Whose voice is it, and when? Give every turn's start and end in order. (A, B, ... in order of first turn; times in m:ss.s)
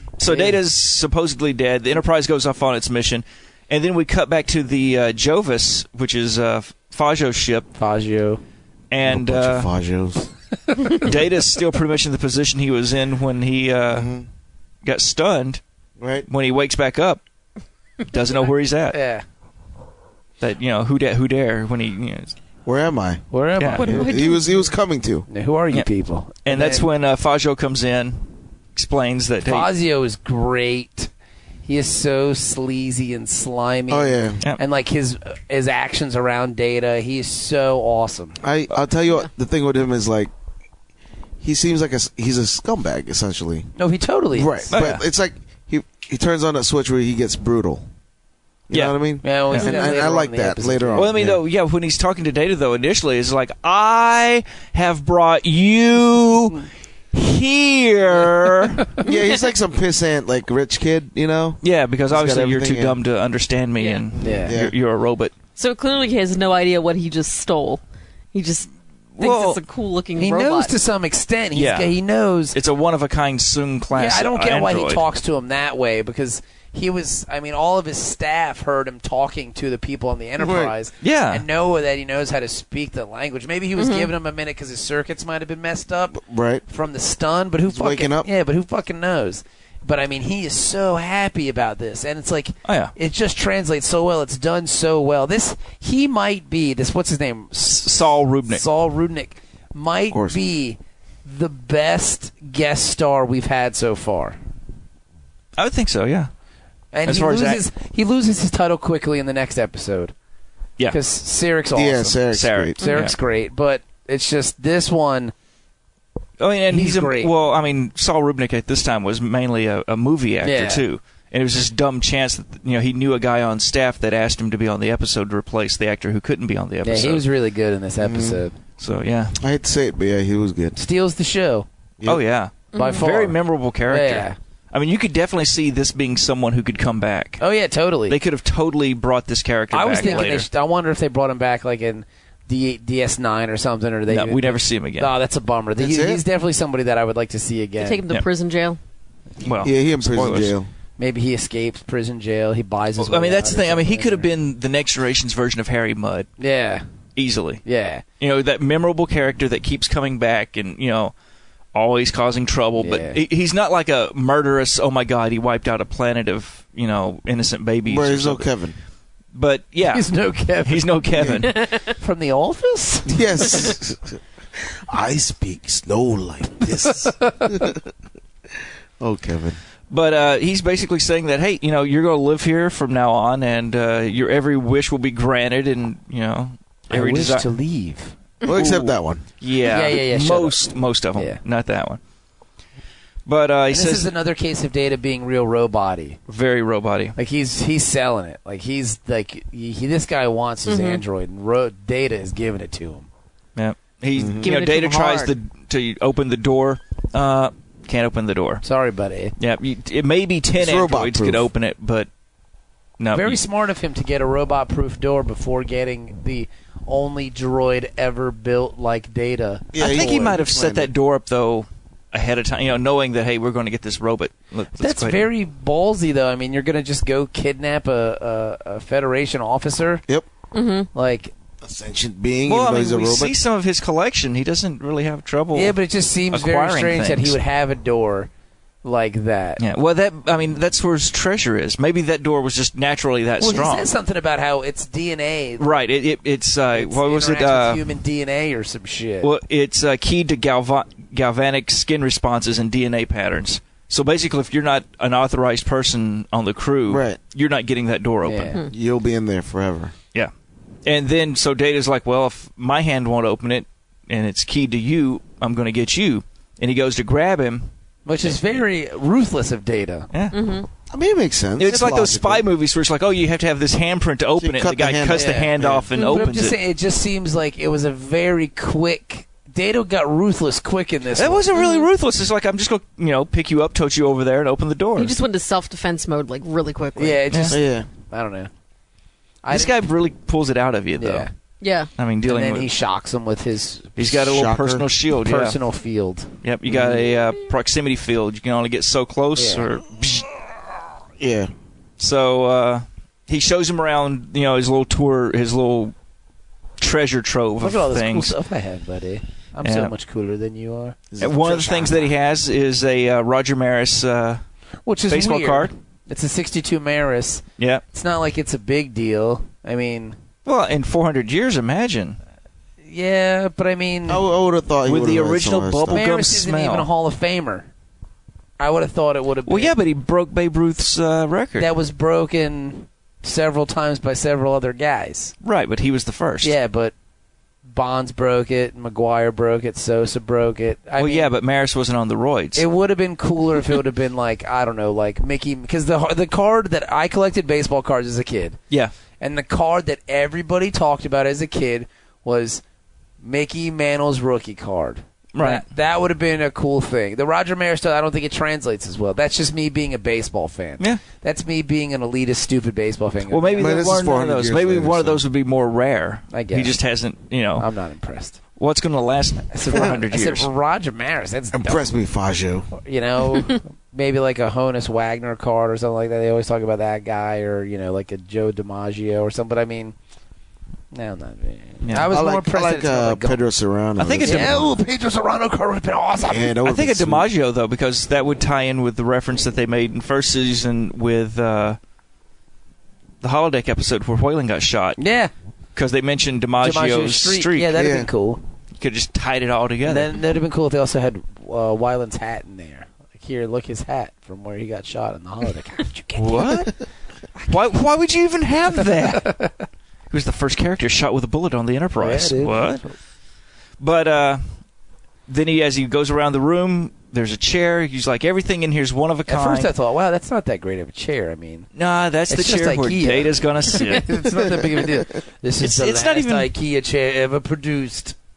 0:00.2-0:07.7 A
0:00.2-0:00.6 B
0:07.7-0:08.4 B
0:08.9-0:09.7 A
0:09.0-0:10.3 C
0:10.7-0:11.0 B
0:10.8-0:14.1 A
0:13.9-0:14.2 C
0:14.8-0:15.6 A
0:16.0-0:16.3 C
0:16.3-0:17.2 A
0:18.1-0:19.0 A
0:18.9-0:19.2 B
0:20.4-0:22.3 A
0:22.6-0:23.2 C
0:23.3-0:24.1 B
0:23.6-0:23.9 A
0:23.7-0:24.7 D
0:23.8-0:25.3 C
0:25.3-0:26.9 B
0:26.4-0:29.7 A
0:29.4-0:31.1 B
0:31.6-0:38.4 B
0:33.9-0:34.4 C
0:38.4-0:40.3 C
0:41.4-0:43.7 C
0:43.8-0:44.7 B
0:44.3-0:47.8 C
0:44.7-0:45.0 A
0:48.7-0:51.4 C
0:48.7-0:49.0 A
0:49.2-0:51.1 B
0:50.9-0:58.9 A
0:58.4-0:59.0 B
0:59.0-1:03.0 C
0:59.0-0:59.5 D
1:01.6-1:05.3 A
1:03.8-1:04.0 D
1:04.2-1:04.5 B
1:04.4-1:04.7 C
1:05.6-1:10.7 D
1:09.2-1:09.6 A
1:10.2-1:12.6 B
1:11.5-1:12.0 A
1:12.5-1:15.0 A
1:13.9-1:44.4 B
1:20.4-1:20.7 C
1:21.0-1:21.4 A
1:23.8-1:24.1 D
1:26.1-1:26.6 C
1:27.7-1:28.3 C
1:32.6-1:32.9 A
1:37.7-1:38.6 A
1:40.1-1:40.4 C
1:45.6-1:46.3 A
1:46.9-1:50.1 B
1:47.0-1:47.6 A
1:50.9-1:52.2 B
1:51.7-1:52.8 C
1:52.3-1:53.1 A
1:52.8-1:55.3 B
1:56.4-2:07.2 A
1:56.7-1:57.3 B
2:00.4-2:00.8 B
2:06.8-2:08.5 B
2:08.0-2:08.4 C
2:08.8-2:09.4 A
2:09.4-2:10.8 C
2:10.8-2:11.7 B
2:12.0-2:17.4 A
2:12.7-2:13.0 D
2:12.7-2:14.4 B
2:17.4-2:18.2 B
2:18.1-2:20.4 A
2:19.7-2:28.0 B
2:20.0-2:20.3 D
2:24.1-2:25.1 A
2:25.8-2:26.2 C
2:27.8-2:28.8 D
2:29.4-2:30.5 A
2:29.6-2:30.7 C
2:31.0-2:34.3 B
2:33.0-2:36.3 A
2:36.4-2:36.8 B
2:37.2-2:37.6 A
2:37.6-2:38.0 B
2:38.2-2:41.1 A
2:41.7-2:48.5 A
2:42.8-2:43.2 B
2:47.9-2:48.8 C
2:49.3-2:50.1 A
2:49.8-2:53.7 B
2:50.6-2:51.7 A
2:51.2-2:51.5 C
2:53.1-2:57.9 C
2:56.9-2:57.7 B
2:59.0-2:59.6 C
2:59.9-3:07.5 A
3:06.9-3:08.1 B
3:08.4-3:09.2 C
3:08.5-3:08.8 A
3:09.4-3:12.0 A
3:09.6-3:10.6 B
3:11.1-3:11.4 B
3:13.2-3:14.1 A
3:13.7-3:16.2 B
3:16.3-3:17.1 A
3:17.2-3:23.1 B
3:20.6-3:21.0 D
3:23.6-3:28.6 A
3:24.2-3:24.5 C
3:24.4-3:25.3 D
3:28.6-3:29.3 B
3:29.4-3:32.1 A
3:30.5-3:31.5 C
3:33.0-3:33.4 A
3:33.1-3:40.2 B
3:39.7-3:40.9 C
3:39.8-3:45.3 A
3:44.8-3:50.0 B
3:50.5-3:50.9 D
3:50.9-3:51.3 B
3:51.6-3:53.4 C
3:52.5-3:55.8 A
3:55.5-3:58.3 B
3:56.3-3:57.4 A
3:58.8-3:59.6 B
3:59.6-4:03.9 A
4:03.4-4:05.6 B
4:05.6-4:07.8 A
4:06.7-4:09.3 B
4:09.2-4:18.6 A
4:16.9-4:17.2 C
4:18.2-4:18.6 B
4:18.7-4:19.9 C
4:20.8-4:27.7 A
4:28.0-4:30.1 B
4:28.2-4:28.5 A
4:30.1-4:30.4 A
4:30.3-4:30.7 D
4:30.9-4:32.4 C
4:31.6-4:36.6 A
4:34.4-4:35.9 C
4:35.1-4:41.5 B
4:35.9-4:36.3 D
4:41.1-4:45.2 A
4:41.5-4:41.9 D
4:45.0-4:47.2 D
4:47.0-4:48.5 B
4:47.3-4:47.6 A
4:47.5-4:47.9 C
4:49.4-4:49.8 B
4:49.5-4:51.3 A
4:51.0-4:51.3 B
4:51.6-4:51.9 D
4:52.0-4:52.7 A
4:52.2-4:54.0 B
4:54.0-4:55.6 A
4:54.0-4:54.8 C
4:55.2-4:56.3 B
4:56.4-5:00.3 A
4:56.7-4:57.0 C
4:59.4-4:59.6 B
5:01.2-5:01.5 C
5:02.0-5:05.9 A
5:06.8-5:08.3 A
5:07.6-5:11.0 B
5:09.6-5:09.9 A
5:11.1-5:12.1 C
5:11.2-5:14.4 A
5:14.8-5:20.2 B
5:15.1-5:15.7 A
5:17.6-5:17.8 A
5:20.4-5:22.2 A
5:22.8-5:24.2 B
5:24.1-5:26.0 C
5:24.8-5:26.9 A
5:25.9-5:27.7 B
5:28.6-5:29.7 B
5:29.4-5:31.7 A
5:31.6-5:35.3 B
5:35.4-5:36.5 A
5:36.4-5:36.9 B
5:37.6-5:41.3 B
5:41.0-5:42.6 A
5:42.6-5:48.6 B
5:49.2-5:52.6 B
5:53.2-6:03.8 B
5:55.3-5:55.6 A
6:03.3-6:07.7 A
6:03.6-6:05.2 C
6:06.3-6:06.8 B
6:07.6-6:08.4 B
6:08.6-6:10.5 A
6:09.5-6:11.9 B
6:11.5-6:12.7 C
6:12.7-6:19.9 B
6:20.9-6:23.4 B
6:21.8-6:22.1 A
6:22.1-6:24.7 C
6:24.0-6:24.6 A
6:24.2-6:26.6 B
6:26.2-6:27.3 C
6:26.6-6:31.8 A
6:33.2-6:35.0 A
6:35.0-6:35.3 B
6:35.7-6:37.8 A
6:36.6-6:38.4 B
6:37.8-6:38.1 C
6:38.8-6:40.2 A
6:39.8-6:46.6 B
6:46.1-6:46.7 A
6:47.5-6:49.5 A
6:49.0-6:49.5 B
6:50.1-6:52.8 A
6:52.0-6:52.9 B
6:53.8-6:54.4 A
6:55.3-6:59.7 A
6:59.3-7:01.7 B
7:01.8-7:04.2 A
7:02.3-7:08.1 B
7:05.6-7:06.5 A